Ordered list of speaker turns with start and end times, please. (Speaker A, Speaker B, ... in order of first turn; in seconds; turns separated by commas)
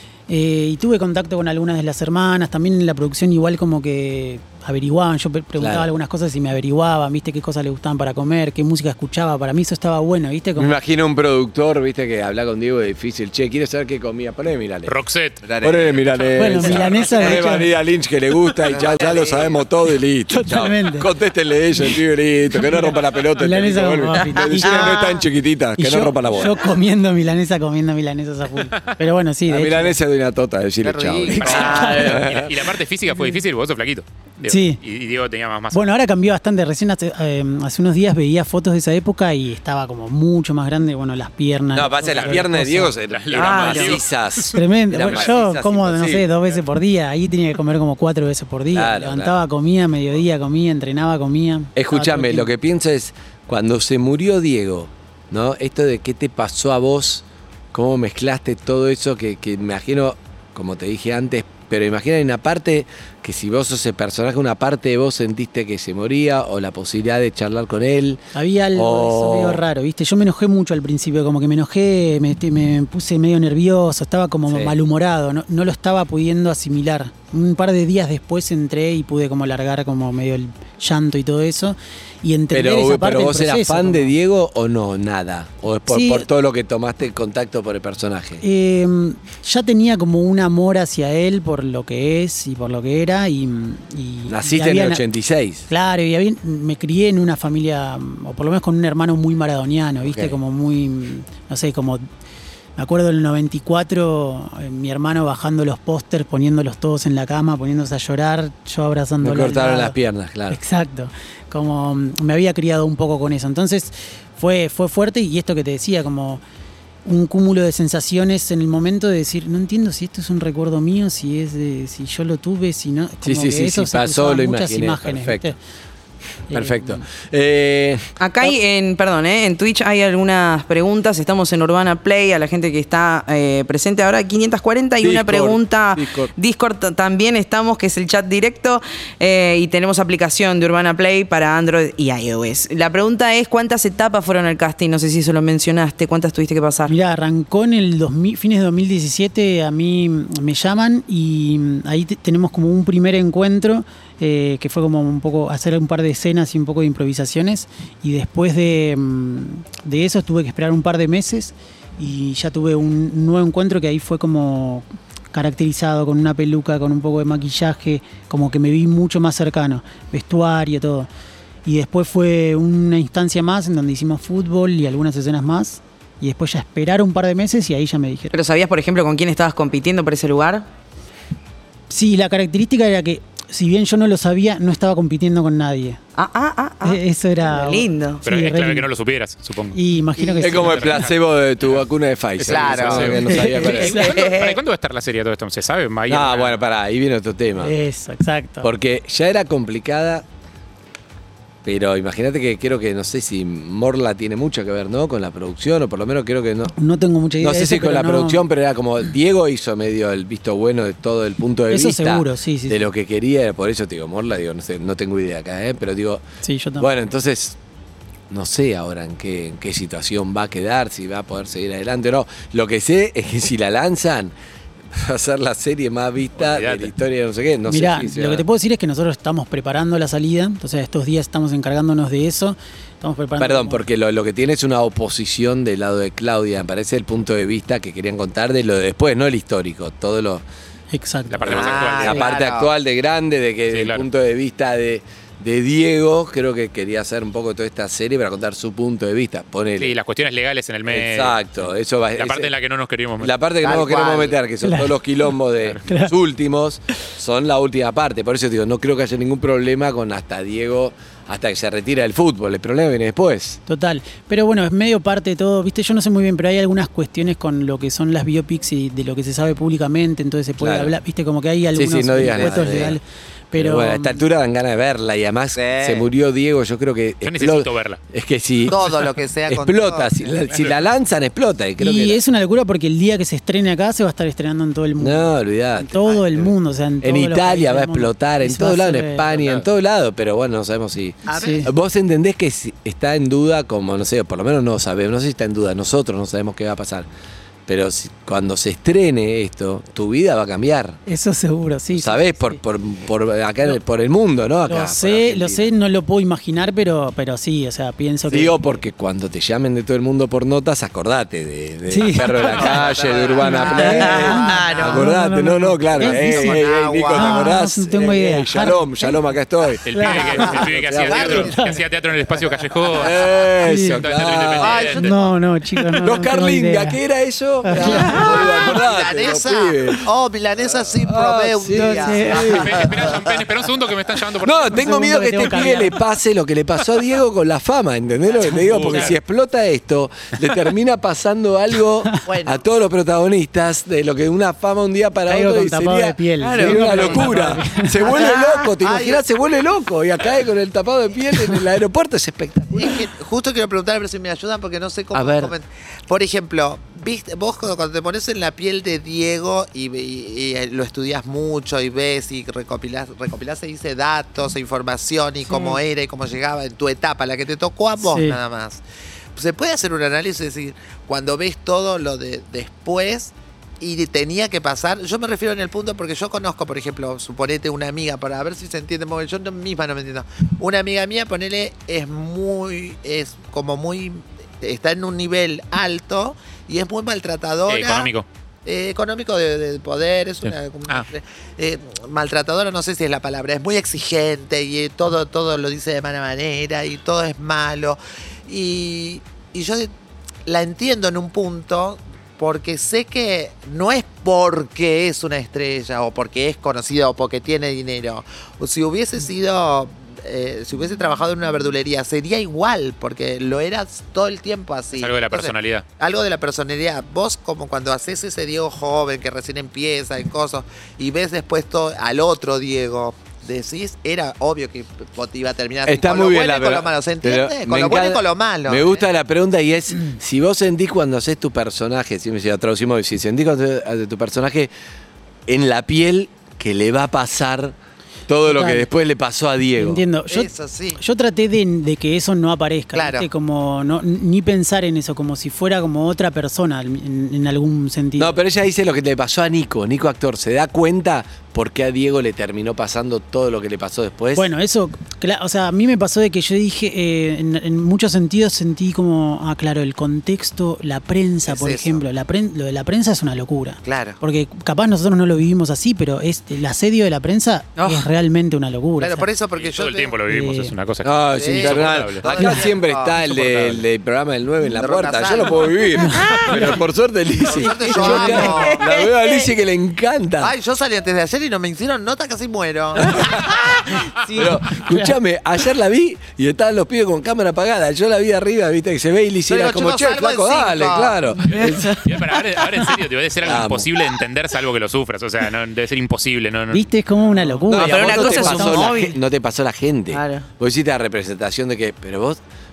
Speaker A: 0.3-10.7, Speaker B: 5.6-5.9, Speaker B: 10.6-14.9, Speaker C: 14.9-15.4, Speaker D: 15.4-15.9, Speaker B: 15.6-26.6, Speaker A: 16.4-17.7, Speaker D: 18.7-19.6, Speaker A: 20.3-21.1, Speaker A: 22.6-25.2, Speaker A: 25.8-30.0, Speaker B: 29.5-32.7, Speaker D: 30.8-32.0, Speaker A: 31.3-32.2, Speaker C: 31.4-35.9, Speaker A: 34.5-34.8, Speaker A: 35.7-42.9, Speaker B: 41.7-46.3, Speaker C: 42.1-42.4, Speaker C: 43.1-45.2, Speaker E: 43.4-44.0, Speaker A: 44.5-52.5, Speaker B: 48.7-49.4, Speaker B: 51.8-69.6, Speaker A: 68.3-84.1, Speaker B: 74.5-74.8, Speaker B: 82.5-88.4, Speaker A: 85.9-86.3, Speaker A: 88.4-95.0, Speaker B: 94.3-95.7, Speaker A: 95.7-102.0, Speaker B: 100.0-100.4, Speaker A: 102.8-110.0, Speaker B: 109.2-110.6, Speaker A: 110.5-116.4, Speaker A: 117.0-125.6, Speaker B: 123.2-125.5, Speaker A: 126.5-127.0, Speaker B: 126.5-128.5, Speaker E: 128.2-146.9, Speaker B: 135.0-136.3, Speaker A: 146.9-171.1, Speaker A: 171.7-178.3, Speaker E: 178.3-180.7, Speaker A: 181.9-186.0, Speaker E: 186.2-188.2, Speaker A: 186.8-188.9, Speaker C: 188.3-189.8, Speaker A: 189.7-191.0, Speaker B: 190.4-194.2, Speaker C: 190.4-191.2, Speaker C: 192.4-196.6, Speaker D: 192.5-193.3, Speaker A: 193.3-194.1, Speaker E: 194.0-194.6, Speaker B: 196.1-197.7, Speaker A: 197.6-198.7, Speaker B: 198.6-200.2, Speaker B: 201.6-206.8, Speaker A: 206.8-208.4, Speaker B: 207.4-216.2, Speaker A: 211.7-212.9, Speaker A: 216.4-216.9, Speaker B: 216.8-217.6, Speaker B: 218.3-224.3, Speaker B: 224.9-228.4, Speaker C: 226.4-226.9, Speaker A: 227.7-233.8, Speaker B: 233.4-240.4, Speaker A: 240.9-241.5, Speaker C: 241.3-242.4, Speaker D: 241.4-242.7, Speaker B: 241.4-249.9, Speaker C: 243.7-244.1, Speaker C: 249.8-251.6, Speaker B: 250.9-252.5, Speaker C: 252.2-253.4, Speaker B: 253.2-263.6, Speaker D: 253.6-254.4, Speaker A: 254.6-254.9, Speaker A: 255.8-256.1, Speaker A: 263.7-274.2, Speaker B: 270.6-270.9, Speaker B: 271.8-273.0, Speaker D: 272.4-272.9, Speaker B: 273.5-282.2, Speaker D: 275.6-276.1, Speaker C: 277.2-278.0, Speaker D: 278.7-280.4, Speaker C: 280.5-280.8, Speaker A: 281.8-289.2, Speaker B: 285.0-297.1, Speaker D: 286.1-286.4, Speaker C: 289.3-289.6, Speaker D: 291.3-291.7, Speaker A: 291.3-291.7, Speaker B: 297.7-301.0, Speaker A: 301.1-302.6, Speaker B: 302.0-305.7, Speaker A: 304.7-308.6, Speaker B: 308.3-319.9, Speaker A: 311.9-312.8, Speaker D: 312.5-315.1, Speaker A: 313.4-319.2, Speaker D: 315.9-317.6, Speaker C: 319.9-325.1, Speaker A: 319.9-320.6, Speaker D: 320.1-321.8, Speaker B: 320.4-321.5, Speaker A: 321.3-321.8, Speaker D: 322.4-323.3, Speaker B: 322.9-325.0, Speaker A: 323.6-324.0, Speaker D: 324.6-325.4, Speaker A: 324.9-327.0, Speaker B: 326.0-330.1, Speaker A: 327.6-328.4, Speaker D: 327.9-333.2, Speaker B: 330.7-333.2, Speaker A: 331.7-332.8, Speaker C: 332.4-334.9, Speaker B: 334.4-353.0, Speaker A: 334.7-336.0, Speaker A: 338.4-339.1, Speaker C: 338.7-339.1, Speaker D: 342.3-342.6, Speaker A: 345.3-348.0, Speaker E: 346.4-347.3, Speaker E: 348.1-348.7, Speaker D: 348.8-349.2, Speaker D: 352.7-368.8, Speaker B: 355.1-355.6, Speaker E: 365.5-365.8, Speaker A: 368.0-368.4, Speaker D: 369.4-388.1, Speaker C: 387.7-388.3, Speaker D: 388.7-399.9, Speaker C: 390.4-391.1, Speaker D: 400.5-429.1, Speaker C: 415.0-415.9, Speaker B: 425.9-434.7, Speaker B: 435.5-437.8, Speaker B: 438.3-440.0, Speaker A: 438.4-438.9, Speaker A: 439.8-448.4, Speaker D: 440.3-441.0, Speaker D: 442.9-443.3, Speaker B: 448.2-454.5, Speaker A: 454.4-469.3, Speaker D: 461.5-462.0, Speaker D: 463.8-464.2, Speaker E: 467.8-468.1, Speaker D: 469.0-470.1, Speaker C: 469.6-472.3, Speaker A: 470.3-470.7, Speaker B: 471.0-480.5, Speaker D: 471.4-473.6, Speaker A: 472.4-472.6, Speaker D: 474.8-475.8, Speaker A: 476.0-476.8, Speaker D: 477.4-478.8, Speaker A: 477.9-478.6, Speaker E: 478.1-479.5, Speaker D: 480.4-483.6, Speaker B: 482.9-483.6, Speaker B: 484.3-492.0, Speaker D: 489.5-491.2, Speaker E: 491.6-492.0, Speaker C: 492.0-496.9, Speaker B: 493.4-493.9, Speaker A: 496.7-498.9, Speaker E: 497.7-499.2, Speaker B: 497.7-502.4, Speaker E: 500.1-500.5